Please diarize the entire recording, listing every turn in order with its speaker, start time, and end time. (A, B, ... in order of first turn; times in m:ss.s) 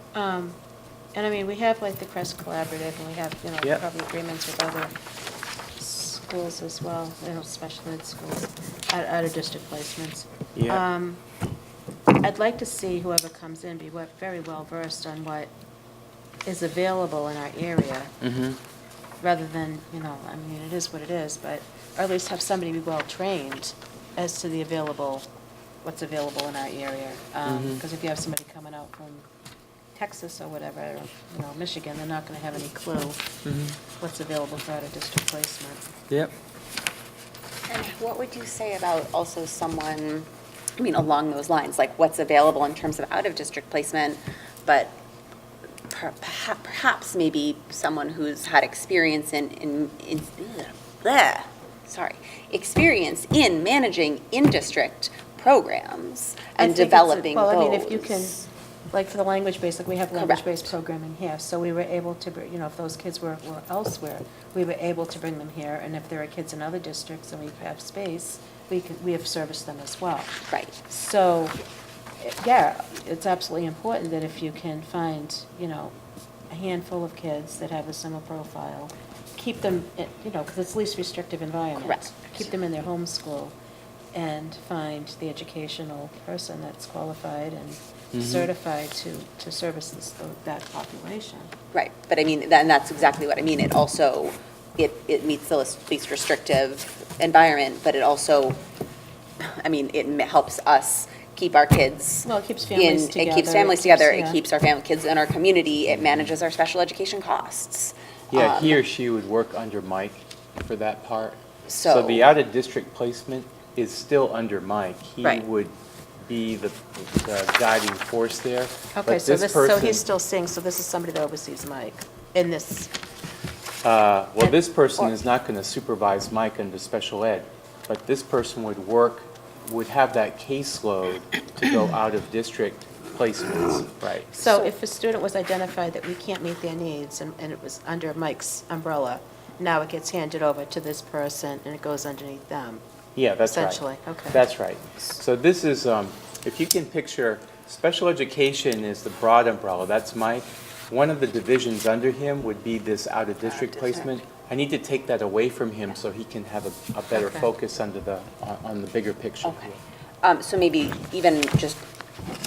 0:00.1-0:00.6 A
0:01.1-0:04.9 A
0:05.8-0:11.2 A
0:10.5-0:10.8 B
0:12.2-0:15.5 A
0:16.4-0:18.1 A
0:18.2-0:18.6 B
0:19.2-0:25.3 A
0:25.8-0:29.2 A
0:27.4-0:27.8 B
0:29.9-0:33.3 A
0:33.4-0:33.8 B
0:33.9-0:36.0 A
0:37.7-0:45.0 C
0:45.9-0:58.3 C
0:56.6-1:11.6 A
1:00.1-1:00.7 C
1:10.5-1:10.8 C
1:12.2-1:15.9 A
1:16.5-1:23.5 A
1:21.8-1:22.3 C
1:24.1-1:31.5 A
1:28.1-1:28.5 B
1:31.7-1:38.6 C
1:39.4-1:48.8 C
1:42.2-1:44.4 A
1:48.3-1:55.7 B
1:51.7-1:52.3 C
1:56.2-2:00.1 B
1:58.9-2:02.9 A
2:03.8-2:14.4 B
2:14.3-2:22.8 A
2:14.4-2:14.7 C
2:23.2-2:39.8 B
2:23.4-2:24.4 A
2:33.4-2:34.1 C
2:37.1-2:37.5 A
2:39.4-2:41.8 C